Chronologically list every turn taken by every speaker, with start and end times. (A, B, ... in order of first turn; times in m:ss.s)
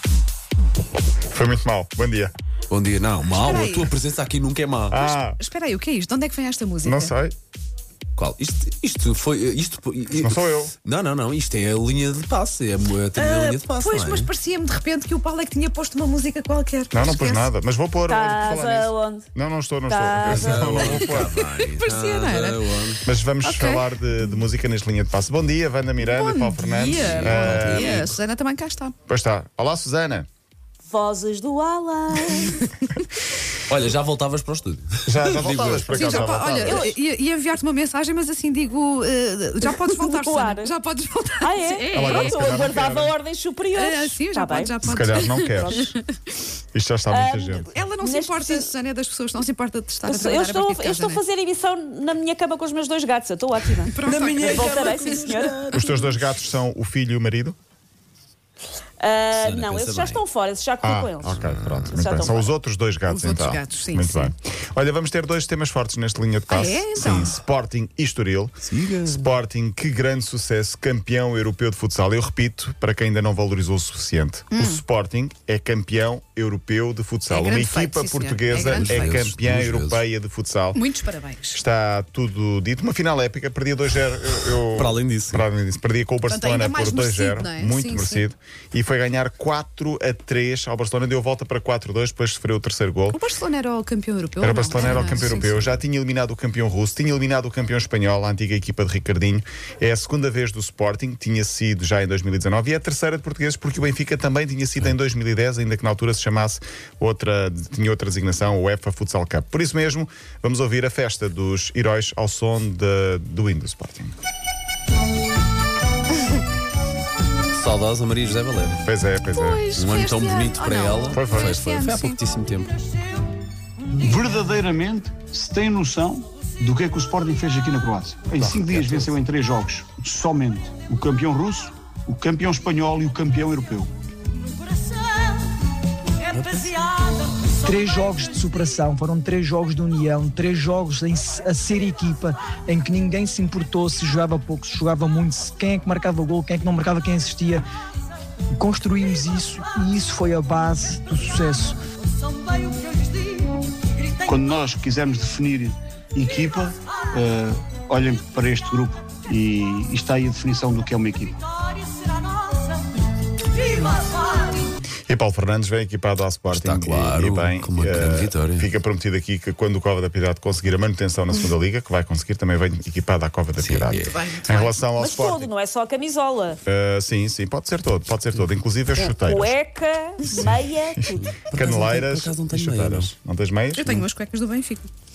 0:01.3-0:02.3 A
0:02.7-0:05.0 B
0:03.3-0:04.0 C
0:04.9-0:05.4 A
0:05.0-0:07.1 C
0:06.8-0:07.4 A
0:08.2-0:14.3 B
0:10.2-0:10.7 A
0:13.1-0:17.5 C
0:16.9-0:21.3 A
0:18.0-0:19.3 D
0:19.9-0:20.8 D
0:20.2-0:23.0 B
0:20.9-0:22.7 C
0:23.0-0:28.1 A
0:23.4-0:24.4 C
0:26.0-0:29.0 C
0:26.9-0:28.1 B
0:29.1-0:30.3 A
0:30.8-0:32.6 D
0:33.7-0:36.6 B
0:35.0-0:36.9 A
0:36.0-0:42.4 C
0:36.6-0:36.9 D
0:39.6-0:40.7 D
0:41.4-0:44.7 D
0:41.9-0:43.1 A
0:43.7-0:46.0 C
0:44.8-0:45.9 A
0:45.6-0:45.9 D
0:46.7-0:47.7 A
0:47.1-0:48.7 D
0:47.7-0:51.2 C
0:50.0-0:55.6 D
0:53.7-0:55.3 C
0:54.1-0:56.2 B
0:55.7-0:57.6 A
0:59.0-1:02.5 D
0:59.3-1:00.2 B
1:00.8-1:20.8 A
1:01.3-1:01.9 B
1:03.0-1:04.3 C
1:06.5-1:07.4 C
1:08.6-1:09.3 B
1:14.5-1:14.8 C
1:17.3-1:19.2 C
1:18.5-1:20.0 B
1:20.7-1:21.6 C
1:21.5-1:33.2 A
1:24.7-1:25.4 B
1:26.3-1:28.3 C
1:33.1-1:35.6 C
1:34.4-1:54.1 A
1:34.8-1:35.6 B
1:57.5-1:58.9 B
1:58.8-1:59.7 A
1:59.2-2:02.2 C
1:59.7-2:02.7 B
2:01.1-2:01.6 A
2:04.0-2:13.9 E
2:08.4-2:09.2 B
2:16.3-2:16.8 B
2:17.6-2:27.6 F
2:28.6-2:31.8 F
2:34.2-2:41.4 E
2:45.1-2:55.5 A
2:46.5-2:48.7 B
2:53.6-2:54.2 B
2:53.8-2:54.8 C
2:55.0-2:56.6 D
2:56.6-2:59.5 A
2:59.0-3:01.3 D
3:00.3-3:03.9 A
3:01.2-3:03.1 B
3:03.8-3:04.9 C